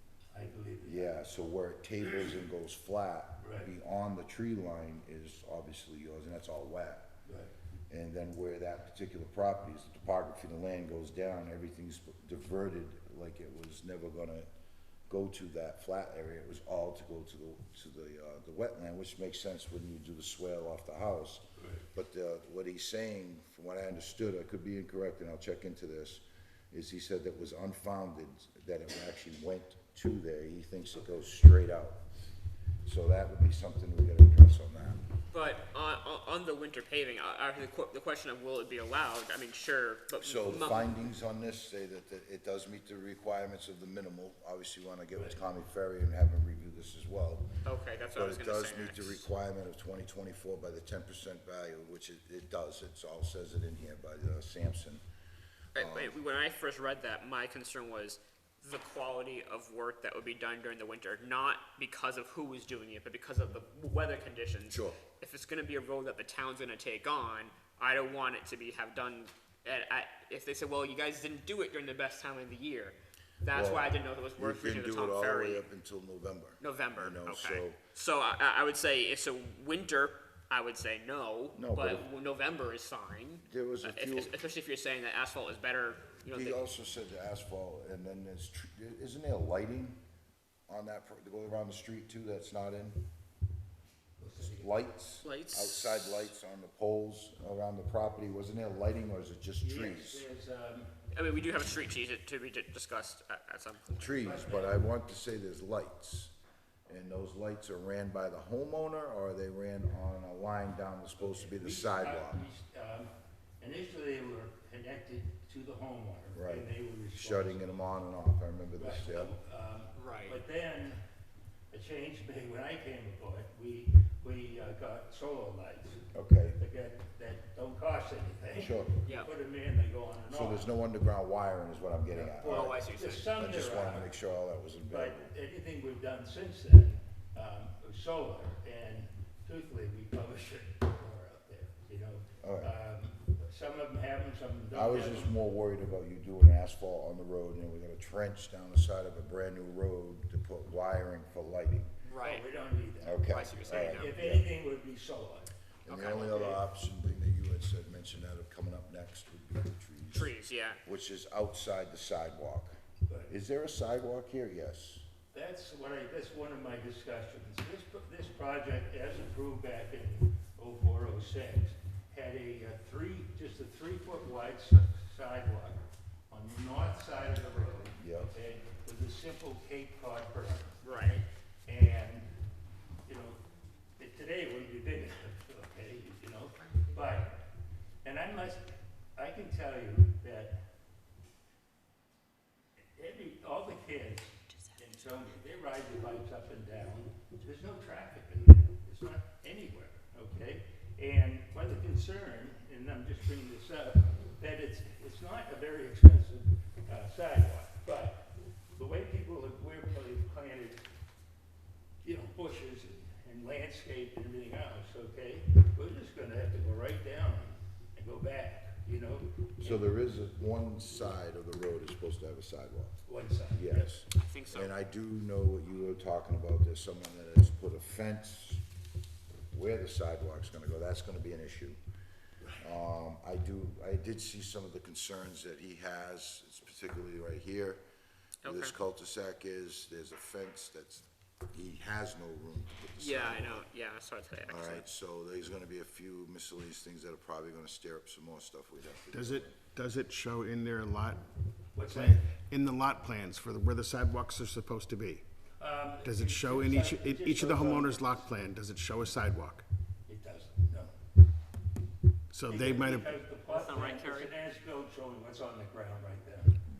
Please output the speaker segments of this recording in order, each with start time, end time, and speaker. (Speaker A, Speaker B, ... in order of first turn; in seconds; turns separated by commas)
Speaker A: 0.3-1.1, Speaker B: 0.8-7.1, Speaker A: 3.4-3.7, Speaker A: 7.2-7.5, Speaker B: 7.9-14.5, Speaker B: 15.1-32.0, Speaker A: 21.6-21.8, Speaker B: 32.8-35.0, Speaker C: 35.3-41.0, Speaker B: 40.2-47.5, Speaker C: 47.6-49.2, Speaker B: 48.1-55.0, Speaker C: 55.7-75.7, Speaker B: 55.8-56.2, Speaker B: 64.7-65.0, Speaker B: 73.5-77.8, Speaker C: 76.6-86.6, Speaker B: 81.5-82.0, Speaker B: 83.4-84.3, Speaker B: 86.3-90.0, Speaker B: 90.7-93.0, Speaker A: 94.2-94.8, Speaker B: 94.4-100.2, Speaker C: 95.2-96.3, Speaker A: 99.6-100.9, Speaker C: 101.1-104.3, Speaker B: 103.9-106.3, Speaker A: 104.2-104.8, Speaker B: 106.9-112.4, Speaker A: 111.2-117.8, Speaker B: 116.3-119.3, Speaker A: 118.8-121.0, Speaker C: 119.9-120.4, Speaker A: 121.7-126.0, Speaker B: 126.1-126.6, Speaker A: 126.6-130.7, Speaker B: 128.5-129.0, Speaker C: 129.0-129.3, Speaker B: 130.3-135.3, Speaker A: 132.1-134.1, Speaker C: 132.4-133.3, Speaker A: 134.9-145.3, Speaker B: 142.4-142.7, Speaker B: 144.7-151.9, Speaker C: 152.0-152.4, Speaker A: 152.2-155.5, Speaker B: 153.0-154.5, Speaker C: 153.3-154.1, Speaker B: 155.8-160.3, Speaker C: 155.9-156.6, Speaker C: 160.1-160.8, Speaker B: 160.8-162.7, Speaker B: 163.3-165.1, Speaker A: 165.3-175.8, Speaker A: 176.3-182.3, Speaker B: 177.9-178.3, Speaker C: 180.8-181.2, Speaker A: 183.1-183.4, Speaker A: 184.0-187.4, Speaker A: 188.0-190.6, Speaker A: 192.9-210.8, Speaker A: 212.0-219.9, Speaker B: 219.6-223.0, Speaker A: 223.1-223.9, Speaker B: 223.5-228.6, Speaker C: 224.2-224.7, Speaker B: 229.5-231.8, Speaker B: 232.6-237.8, Speaker C: 238.4-238.7, Speaker B: 238.4-243.6, Speaker C: 243.0-244.8, Speaker B: 244.4-249.6, Speaker D: 249.1-251.2, Speaker A: 251.7-252.2, Speaker D: 251.8-255.2, Speaker A: 255.6-258.3, Speaker D: 256.0-259.6, Speaker A: 260.1-260.9, Speaker D: 262.3-263.2, Speaker A: 262.4-266.6, Speaker C: 263.5-264.3